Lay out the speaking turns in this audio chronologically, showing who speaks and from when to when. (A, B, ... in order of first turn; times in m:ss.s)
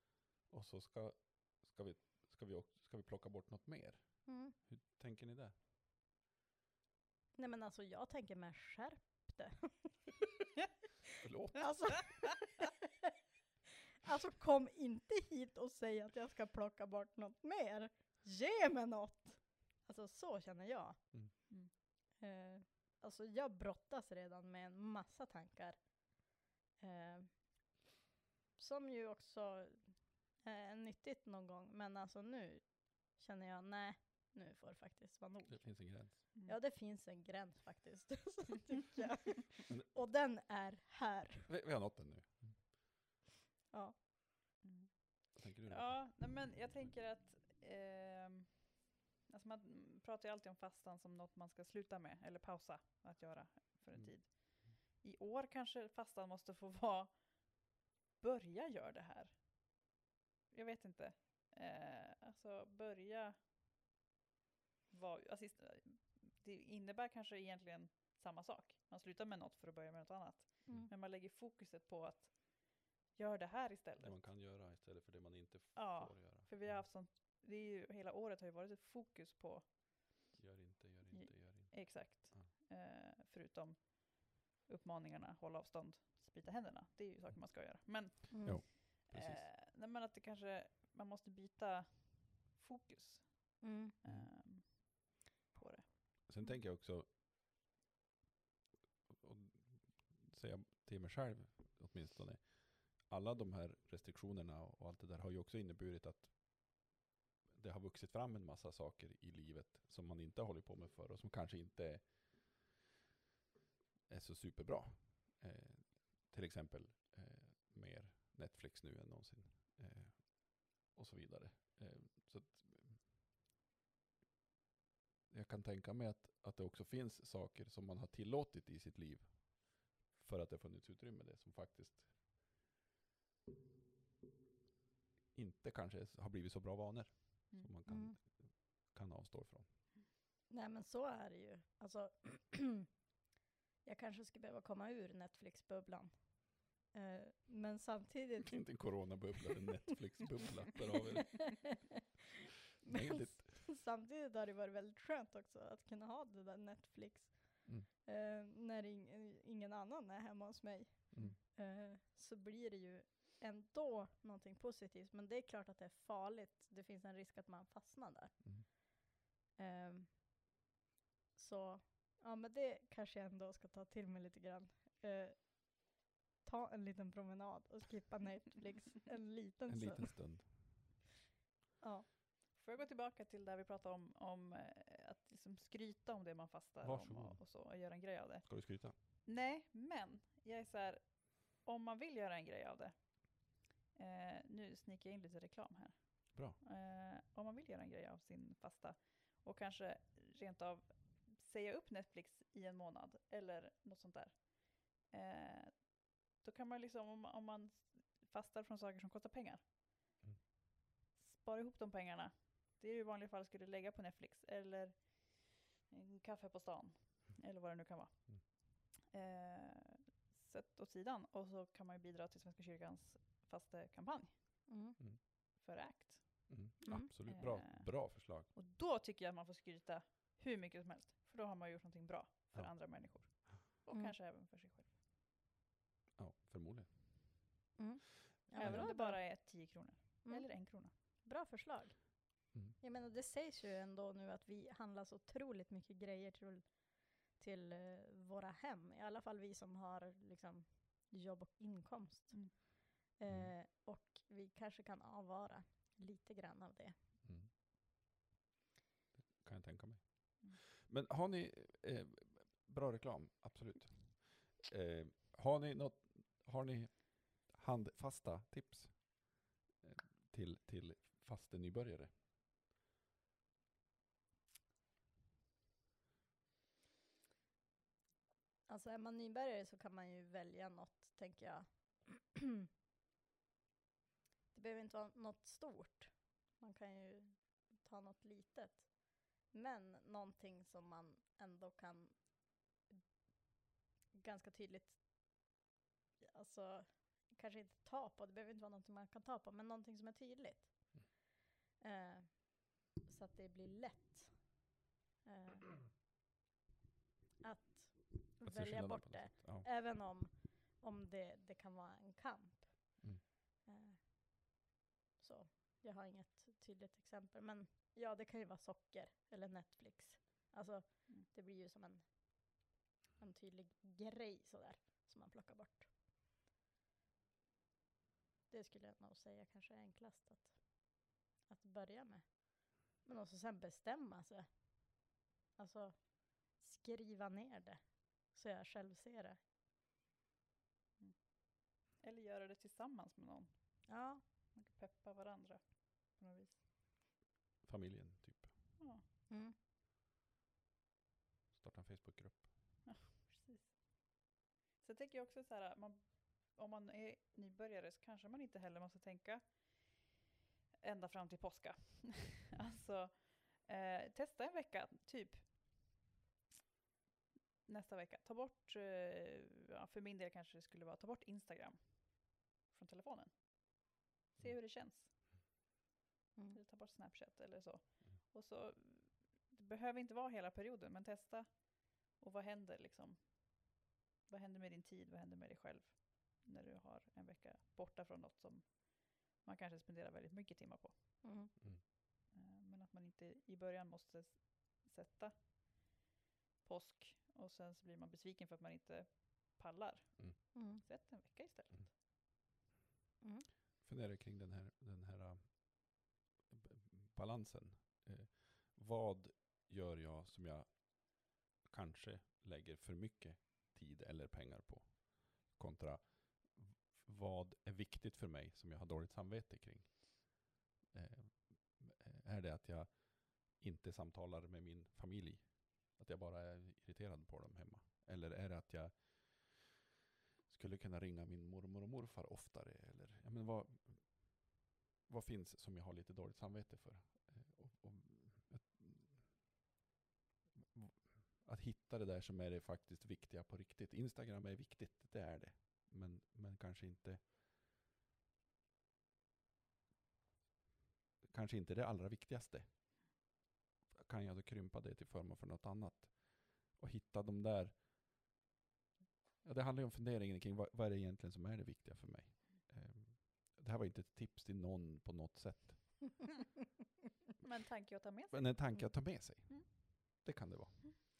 0:00.5-0:05.5 A
0:04.3-0:04.6 B
0:07.4-0:10.1 B
0:11.2-0:12.1 A
0:11.6-0:12.7 B
0:14.0-0:21.5 B
0:22.1-0:26.2 B
0:26.8-0:27.7 B
0:28.6-0:41.5 B
0:35.5-0:36.3 A
0:41.5-0:42.7 A
0:43.7-0:44.0 B
0:44.6-0:57.6 C
0:45.4-0:46.6 A
0:53.9-0:54.8 A
0:58.2-0:59.4 C
1:00.5-1:03.4 C
1:04.9-1:14.3 C
1:14.0-1:16.8 A
1:15.8-1:20.2 C
1:20.4-1:22.5 A
1:21.1-1:36.3 C
1:28.3-1:28.6 B
1:28.4-1:29.5 A
1:33.6-1:33.9 B
1:34.0-1:34.3 A
1:36.3-1:37.1 A
1:39.1-1:47.0 A
1:47.5-1:52.6 A
1:54.1-2:03.0 A
2:05.3-2:12.2 A
2:15.3-2:19.7 A
2:17.9-2:18.2 B
2:20.5-2:23.0 B
2:23.8-2:29.1 B
2:28.5-2:31.9 A
2:32.8-2:48.9 B
2:32.8-2:33.7 A
2:41.1-2:41.4 A
2:49.6-2:50.2 B
2:51.4-3:00.4 B
2:59.7-3:00.6 A
3:01.8-3:02.1 B
3:02.5-3:29.6 C
3:06.8-3:07.4 A
3:08.5-3:09.0 A
3:16.3-3:16.6 A
3:31.2-3:44.6 C
3:44.7-3:45.0 B
3:45.6-3:46.8 C
3:46.5-3:48.5 A
3:47.3-3:54.9 C
3:52.5-3:53.5 A
3:56.2-3:57.5 A
3:57.8-4:17.0 B
3:58.5-3:58.9 A
3:58.6-4:00.9 C
4:13.3-4:13.5 A
4:17.2-4:17.5 A
4:19.2-4:32.1 A
4:38.7-4:42.4 B
4:44.5-4:53.0 B
4:54.1-4:55.6 B
4:56.2-5:01.2 B
5:01.8-5:04.7 B
5:05.2-5:05.8 B
5:07.4-5:14.6 B
5:08.4-5:09.7 A
5:15.2-5:25.9 B
5:28.5-5:39.4 B
5:41.0-5:46.6 C
5:43.9-5:44.2 B
5:47.6-5:48.6 A
5:49.3-5:49.6 B
5:51.5-5:52.8 A
5:52.9-6:00.1 C
6:00.8-6:06.0 C
6:07.7-6:15.1 C
6:16.6-6:31.6 C
6:31.2-6:31.5 B
6:31.6-6:31.8 A
6:32.3-6:35.5 C
6:36.6-6:41.9 C
6:40.5-6:40.8 B
6:43.2-6:43.5 B
6:43.8-7:09.8 A
7:10.5-7:19.3 A
7:20.6-7:27.3 A
7:31.2-7:32.7 A
7:33.9-7:37.8 A
7:39.4-7:46.2 A
7:47.4-7:49.7 C
7:48.3-7:50.8 A